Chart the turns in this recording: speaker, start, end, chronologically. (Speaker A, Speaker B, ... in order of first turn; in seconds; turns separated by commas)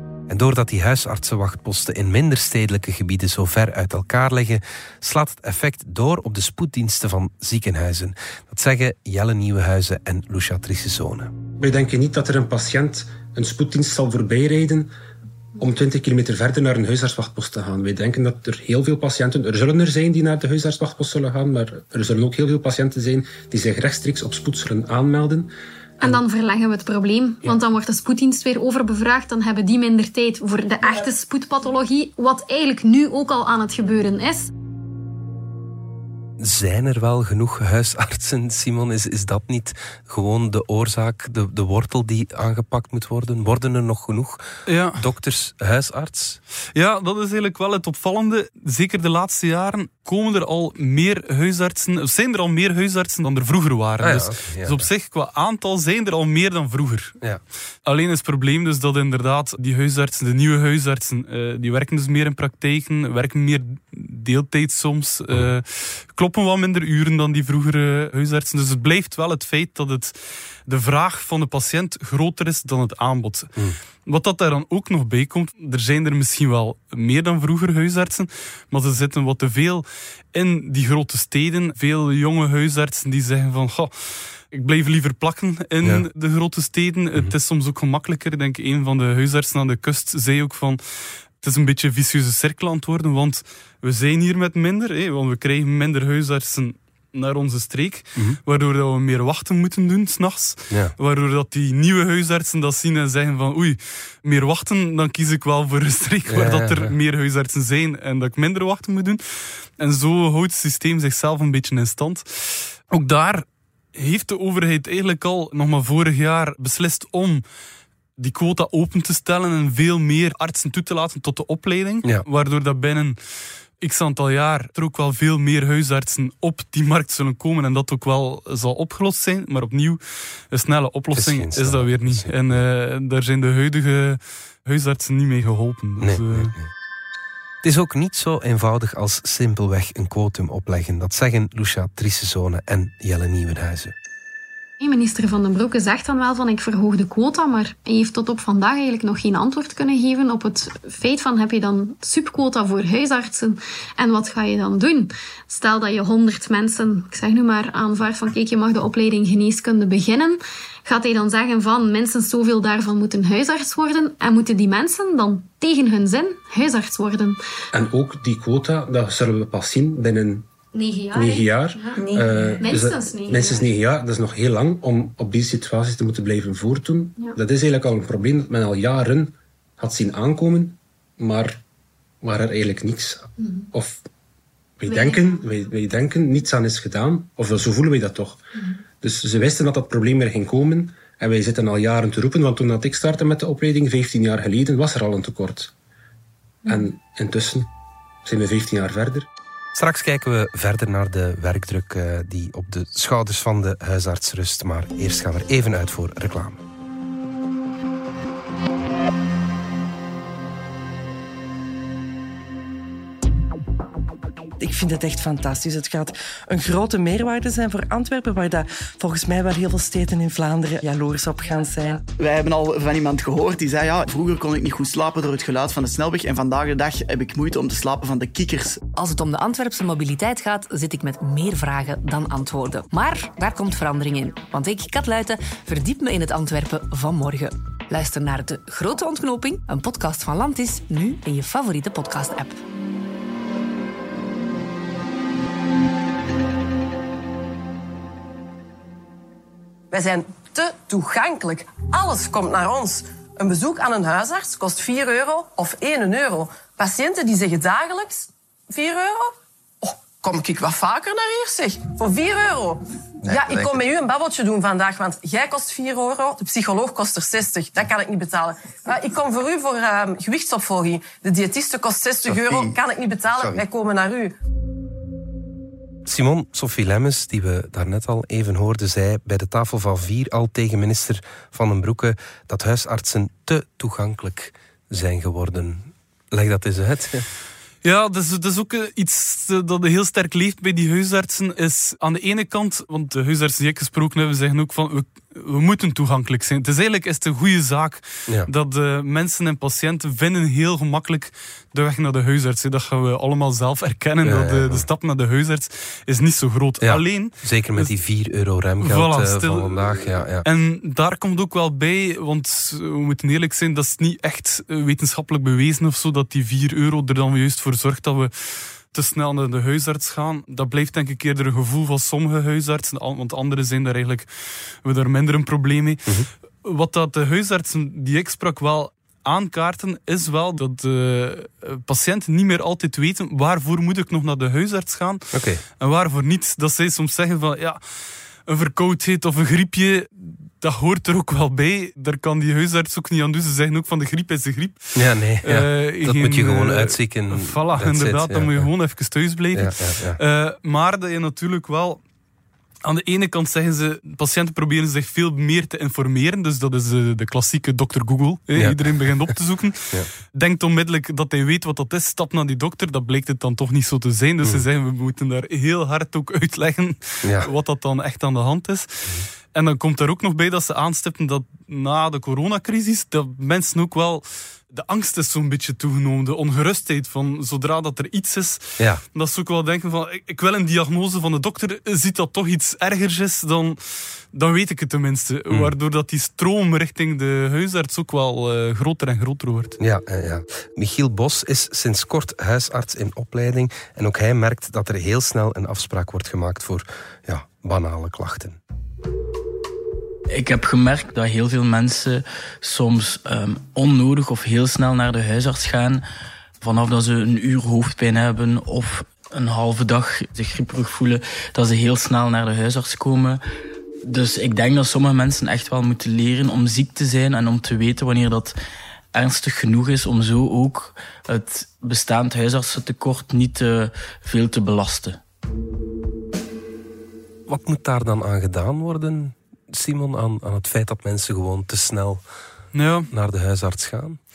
Speaker A: 0.3-11.3, Speaker B: 11.6-14.9, Speaker B: 15.6-25.5, Speaker C: 26.0-34.5, Speaker A: 36.4-46.4, Speaker D: 44.6-45.0, Speaker D: 46.7-57.1, Speaker A: 54.0-54.9, Speaker D: 57.8-73.5, Speaker D: 74.0-90.8, Speaker A: 85.8-86.1, Speaker D: 91.4-117.4, Speaker A: 106.3-106.9, Speaker D: 118.2-123.2, Speaker D: 123.8-136.5, Speaker A: 131.1-132.6, Speaker A: 136.0-136.7, Speaker A: 137.6-143.9, Speaker C: 144.8-167.4, Speaker B: 167.7-170.4, Speaker C: 170.7-173.7, Speaker B: 171.1-181.6, Speaker B: 182.2-184.0, Speaker B: 184.8-188.4, Speaker C: 184.8-185.5, Speaker B: 189.0-195.7, Speaker B: 196.7-197.7, Speaker B: 198.2-199.3, Speaker A: 199.7-206.6, Speaker E: 214.6-222.0, Speaker F: 222.2-228.8, Speaker G: 228.9-242.5, Speaker H: 249.9-259.3, Speaker H: 259.8-274.3, Speaker A: 263.3-263.8, Speaker A: 276.1-287.2, Speaker D: 287.8-308.0, Speaker A: 304.2-304.9, Speaker A: 306.8-310.5, Speaker D: 308.8-337.8, Speaker A: 335.3-335.6, Speaker D: 338.4-352.0, Speaker A: 344.9-348.7, Speaker A: 349.5-350.2, Speaker D: 352.8-389.8, Speaker A: 358.6-359.3, Speaker A: 367.2-367.5, Speaker A: 385.5-385.7, Speaker A: 389.8-398.6, Speaker I: 400.3-406.0, Speaker I: 406.6-413.4, Speaker I: 414.0-418.6, Speaker I: 419.1-425.2, Speaker A: 427.5-432.2, Speaker D: 432.7-433.1, Speaker A: 433.1-434.2